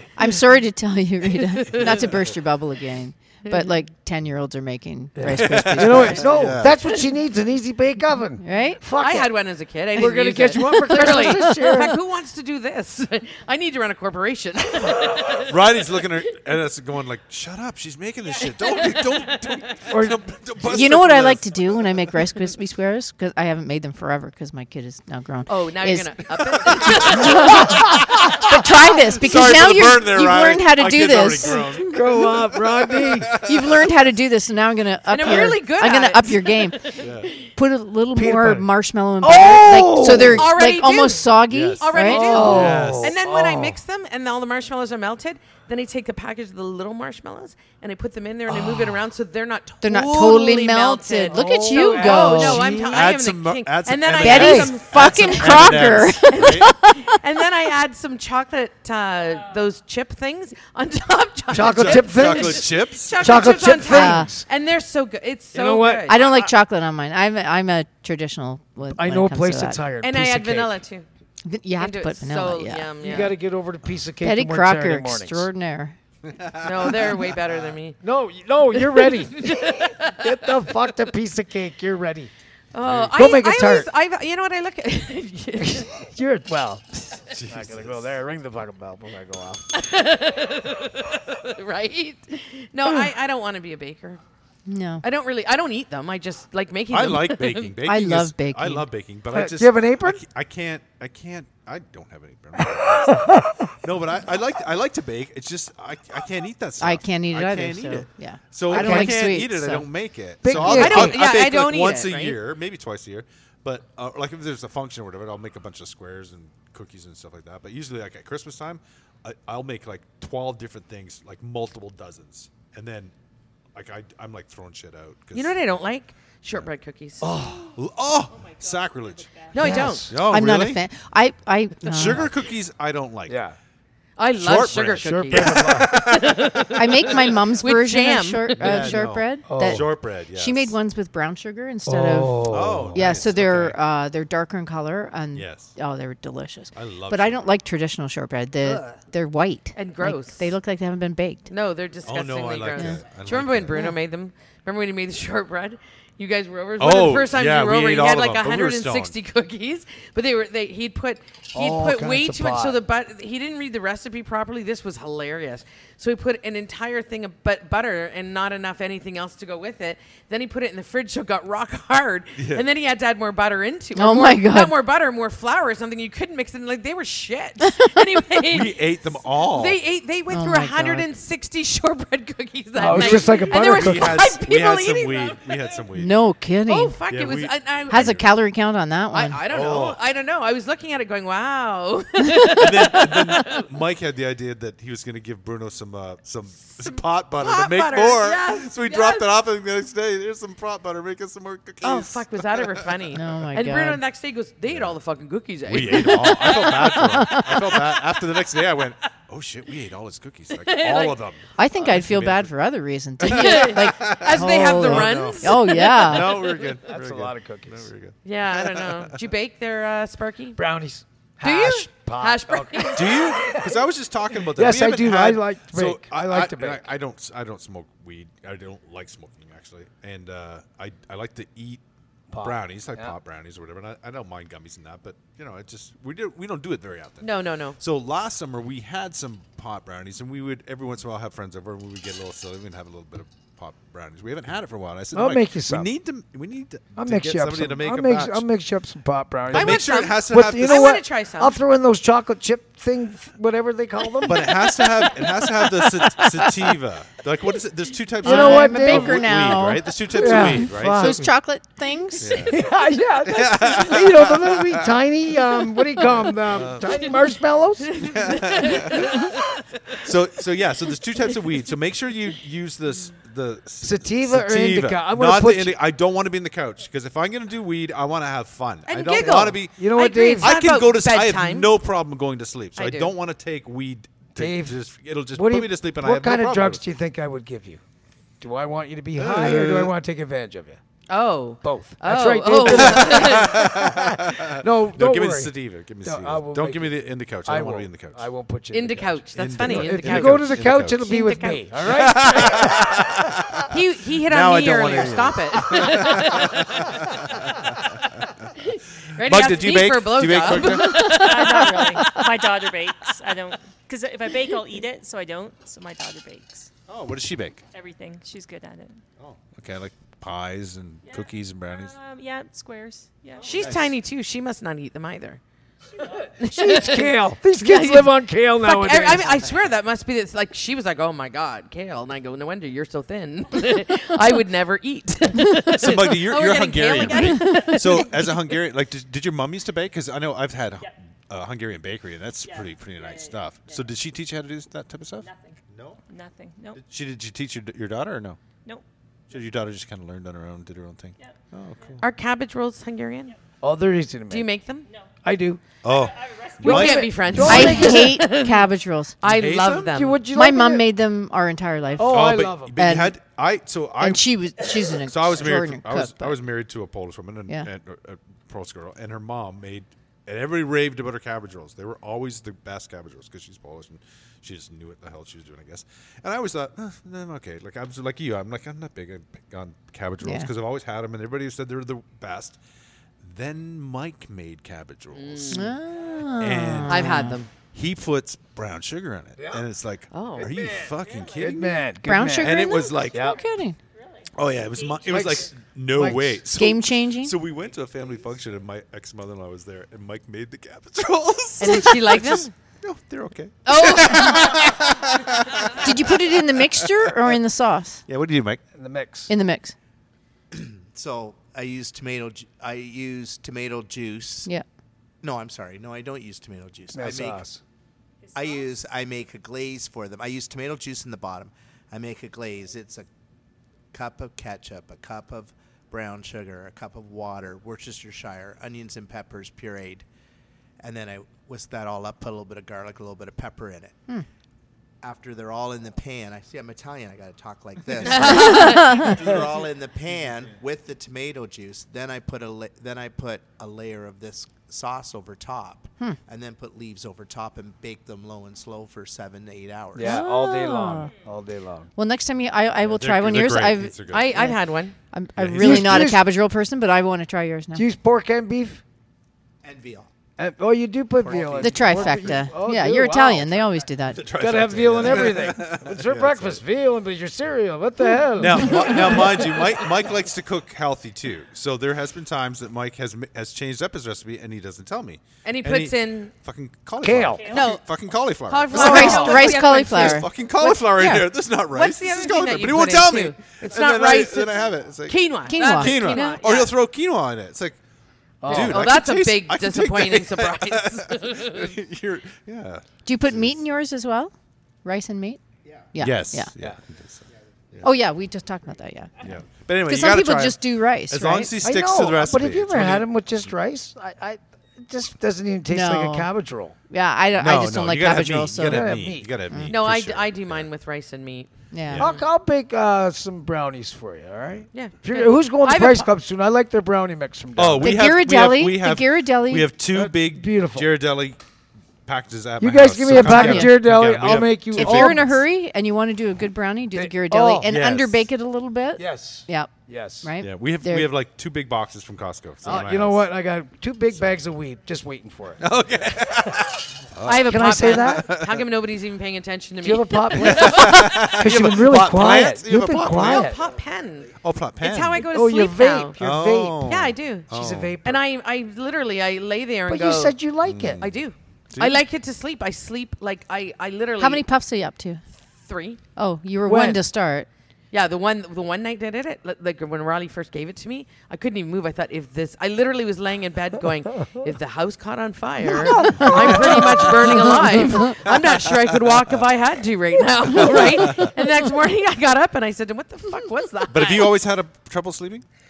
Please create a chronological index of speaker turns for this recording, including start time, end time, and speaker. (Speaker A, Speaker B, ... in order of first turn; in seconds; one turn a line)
Speaker A: 0.2-6.5
Speaker B: 1.4-2.1
Speaker C: 5.2-9.3
Speaker D: 5.3-6.8
Speaker A: 8.4-8.8
Speaker B: 9.0-16.1
Speaker C: 9.9-11.9
Speaker A: 10.8-11.8
Speaker D: 15.4-22.1
Speaker B: 18.7-19.8
Speaker C: 19.9-20.2
Speaker A: 20.7-26.2
Speaker B: 25.5-28.0
Speaker D: 26.7-28.5
Speaker A: 27.1-27.9
Speaker A: 28.4-31.9
Speaker D: 29.2-33.9
Speaker C: 31.9-33.4
Speaker A: 33.4-36.9
Speaker B: 35.1-37.5
Speaker D: 37.0-37.3
Speaker A: 37.6-42.6
Speaker C: 38.2-38.7
Speaker C: 39.2-40.5
Speaker B: 39.3-66.3
Speaker D: 41.5-43.2
Speaker C: 42.0-43.8
Speaker C: 48.6-48.9
Speaker A: 49.8-52.7
Speaker C: 51.3-53.0
Speaker D: 52.9-56.7
Speaker A: 54.2-57.2
Speaker C: 54.3-54.7
Speaker C: 61.5-64.5
Speaker D: 61.6-63.8
Speaker A: 63.9-64.3
Speaker C: 65.5-66.2
Speaker A: 66.1-69.8
Speaker C: 68.9-70.8
Speaker B: 70.0-71.1
Speaker A: 71.4-73.2
Speaker B: 71.8-73.4
Speaker C: 73.0-75.5
Speaker A: 74.2-76.0
Speaker D: 76.2-77.8
Speaker B: 76.6-78.0
Speaker C: 78.0-82.3
Speaker B: 78.8-80.4
Speaker B: 82.7-86.0
Speaker D: 82.8-83.2
Speaker C: 83.2-83.9
Speaker C: 85.6-89.7
Speaker D: 87.3-88.1
Speaker B: 89.7-94.2
Speaker A: 94.7-95.0
Speaker B: 95.0-97.8
Speaker D: 96.9-123.1
Speaker A: 97.8-98.9
Speaker C: 99.3-100.2
Speaker C: 103.1-103.5
Speaker A: 106.8-109.9
Speaker C: 108.7-109.2
Speaker C: 110.4-111.2
Speaker B: 110.5-112.4
Speaker D: 123.7-125.8
Speaker B: 125.3-127.3
Speaker C: 127.2-127.7
Speaker E: 127.4-127.7
Speaker D: 127.8-130.8
Speaker E: 128.3-129.7
Speaker B: 129.5-130.1
Speaker C: 129.6-130.2
Speaker A: 129.7-132.3
Speaker D: 131.8-133.4
Speaker C: 133.3-133.6
Speaker B: 134.2-138.9
Speaker D: 134.4-136.8
Speaker C: 135.0-135.9
Speaker A: 136.7-151.5
Speaker D: 138.6-140.8
Speaker C: 139.5-139.9
Speaker C: 141.9-143.2
Speaker D: 142.4-143.8
Speaker D: 145.3-145.7
Speaker D: 146.8-147.5
Speaker B: 148.7-149.0
Speaker B: 149.8-150.6
Speaker B: 151.5-178.9
Speaker D: 152.1-153.9
Speaker D: 156.8-159.2
Speaker C: 161.5-162.8
Speaker D: 172.4-172.7
Speaker A: 174.0-174.8
Speaker A: 177.6-178.0
Speaker D: 178.5-179.8
Speaker B: 179.4-185.5
Speaker A: 180.3-181.1
Speaker C: 182.8-184.3
Speaker D: 182.9-186.2
Speaker A: 185.9-187.0
Speaker B: 186.7-188.2
Speaker D: 187.1-188.3
Speaker A: 187.9-189.4
Speaker B: 189.1-193.7
Speaker D: 189.5-190.0
Speaker D: 192.5-203.2
Speaker B: 197.4-199.3
Speaker B: 201.8-206.9
Speaker A: 203.2-204.0
Speaker D: 204.7-205.0
Speaker D: 205.7-212.5
Speaker A: 205.9-207.8
Speaker B: 210.6-211.2
Speaker A: 211.6-216.4
Speaker B: 213.2-216.8
Speaker D: 213.2-219.2
Speaker C: 216.8-217.9
Speaker B: 218.2-220.6
Speaker C: 220.6-223.8
Speaker B: 221.4-223.4
Speaker D: 222.9-231.8
Speaker C: 224.5-226.8
Speaker C: 232.3-233.2
Speaker D: 232.4-248.5
Speaker B: 237.2-237.8
Speaker C: 245.1-245.9
Speaker C: 247.0-256.5
Speaker D: 249.5-251.0
Speaker B: 249.5-251.6
Speaker D: 254.2-261.3
Speaker C: 258.2-259.3
Speaker A: 258.2-262.5
Speaker C: 260.2-261.3
Speaker D: 262.2-262.7
Speaker C: 262.5-268.1
Speaker D: 263.2-265.0
Speaker D: 266.0-267.1
Speaker B: 267.9-270.1
Speaker D: 268.0-269.1
Speaker C: 268.9-269.4
Speaker D: 270.0-279.8
Speaker C: 273.8-275.8
Speaker B: 278.9-281.7
Speaker C: 279.2-280.6
Speaker D: 280.4-286.8
Speaker B: 282.8-283.1
Speaker C: 284.4-284.8
Speaker C: 285.3-287.8
Speaker C: 288.4-290.8
Speaker D: 289.1-289.9
Speaker B: 291.1-293.7
Speaker C: 291.6-295.5
Speaker D: 292.6-298.3
Speaker C: 296.0-303.1
Speaker B: 298.7-302.6
Speaker D: 299.3-301.0
Speaker D: 301.8-303.8
Speaker B: 303.7-307.0
Speaker D: 304.3-308.5
Speaker B: 308.6-312.2
Speaker D: 309.2-312.1
Speaker E: 311.2-316.7
Speaker D: 316.9-317.6
Speaker E: 317.7-319.0
Speaker D: 319.2-321.9
Speaker E: 321.1-323.7
Speaker B: 323.4-325.4
Speaker D: 323.5-323.9
Speaker C: 326.4-329.4
Speaker B: 326.5-338.4
Speaker D: 335.7-346.0
Speaker A: 337.3-337.8
Speaker E: 342.4-343.9
Speaker E: 345.2-346.8
Speaker D: 346.7-348.4
Speaker D: 349.3-352.1
Speaker E: 351.2-352.0
Speaker B: 352.0-353.4
Speaker C: 353.6-354.5
Speaker B: 354.3-354.9
Speaker C: 355.2-355.6
Speaker D: 355.8-357.9
Speaker E: 355.9-356.6
Speaker C: 356.6-358.2
Speaker B: 356.6-358.7
Speaker A: 357.4-359.2
Speaker B: 359.2-360.2
Speaker D: 359.2-360.0
Speaker C: 359.9-360.9
Speaker A: 360.3-363.1
Speaker C: 362.0-362.8
Speaker D: 362.0-364.3
Speaker A: 364.0-366.4
Speaker D: 364.9-382.6
Speaker A: 380.2-380.5
Speaker D: 383.2-385.8
Speaker B: 385.1-385.7
Speaker A: 385.5-387.4
Speaker D: 386.4-393.4
Speaker B: 386.9-387.5
Speaker B: 390.1-390.5
Speaker E: 391.0-391.3
Speaker C: 391.3-393.4
Speaker A: 392.0-393.8
Speaker E: 394.0-395.1
Speaker D: 394.3-407.4
Speaker C: 395.1-396.4
Speaker A: 396.5-397.4
Speaker B: 401.6-402.5
Speaker B: 403.6-404.9
Speaker A: 405.8-408.0
Speaker D: 408.1-408.6
Speaker C: 408.8-409.3
Speaker A: 409.3-409.8
Speaker F: 410.5-414.5
Speaker F: 415.2-417.5
Speaker C: 416.9-417.6
Speaker E: 418.2-418.7
Speaker F: 418.3-423.1
Speaker F: 423.9-430.1
Speaker F: 430.8-434.0
Speaker F: 435.0-450.2
Speaker B: 438.0-439.3
Speaker A: 438.2-439.2
Speaker A: 450.0-451.1
Speaker C: 450.0-451.9
Speaker A: 452.0-454.6
Speaker D: 452.9-454.4
Speaker B: 454.1-454.9
Speaker A: 455.1-457.8
Speaker D: 455.4-456.2
Speaker C: 455.6-456.3
Speaker C: 457.7-458.8
Speaker F: 459.6-460.1
Speaker C: 460.4-463.8
Speaker F: 461.2-462.5
Speaker A: 461.6-464.3
Speaker D: 464.1-466.6
Speaker C: 464.4-469.4
Speaker D: 468.4-487.8
Speaker A: 468.6-469.3
Speaker B: 475.4-476.3
Speaker C: 477.0-477.5
Speaker E: 477.2-477.7
Speaker B: 477.5-480.3
Speaker C: 478.7-479.5
Speaker A: 478.7-481.4
Speaker B: 481.7-486.7
Speaker A: 485.5-486.4
Speaker C: 488.4-488.9
Speaker D: 488.4-493.6
Speaker B: 488.5-491.8
Speaker A: 493.1-494.3
Speaker A: 494.9-495.4
Speaker A: 495.9-496.5
Speaker D: 495.9-497.9
Speaker A: 497.8-499.1
Speaker D: 499.2-503.1
Speaker A: 499.9-501.6
Speaker C: 501.6-506.8
Speaker A: 505.7-506.3
Speaker A: 506.9-509.8
Speaker D: 507.4-510.7
Speaker C: 508.6-509.3
Speaker B: 509.7-512.3
Speaker A: 511.7-512.0
Speaker D: 511.8-512.1
Speaker C: 512.0-518.0
Speaker B: 514.7-516.1
Speaker D: 517.6-521.4
Speaker A: 517.8-519.7
Speaker C: 519.9-520.9
Speaker D: 522.1-525.4
Speaker C: 522.6-525.3
Speaker A: 523.1-523.8
Speaker A: 524.7-531.1
Speaker C: 527.0-527.7
Speaker D: 527.7-528.3
Speaker C: 529.0-530.3
Speaker D: 530.4-533.3
Speaker C: 532.6-535.7
Speaker D: 535.6-538.7
Speaker B: 537.2-541.4
Speaker C: 537.3-538.3
Speaker C: 539.8-543.6
Speaker D: 540.4-543.6
Speaker B: 543.1-546.2
Speaker D: 544.4-545.3
Speaker C: 545.2-546.9
Speaker D: 546.2-548.1
Speaker B: 546.8-547.5
Speaker C: 547.5-548.2
Speaker B: 548.0-550.4
Speaker C: 549.9-551.0
Speaker D: 550.6-551.2
Speaker B: 551.0-554.4
Speaker D: 551.7-552.0
Speaker A: 554.2-555.2
Speaker B: 555.6-556.0
Speaker A: 556.2-557.5
Speaker C: 556.7-557.0
Speaker B: 557.9-574.4
Speaker C: 565.7-567.8
Speaker A: 565.9-566.6
Speaker A: 567.5-568.1
Speaker D: 568.3-569.4
Speaker D: 571.0-571.3
Speaker D: 573.9-575.5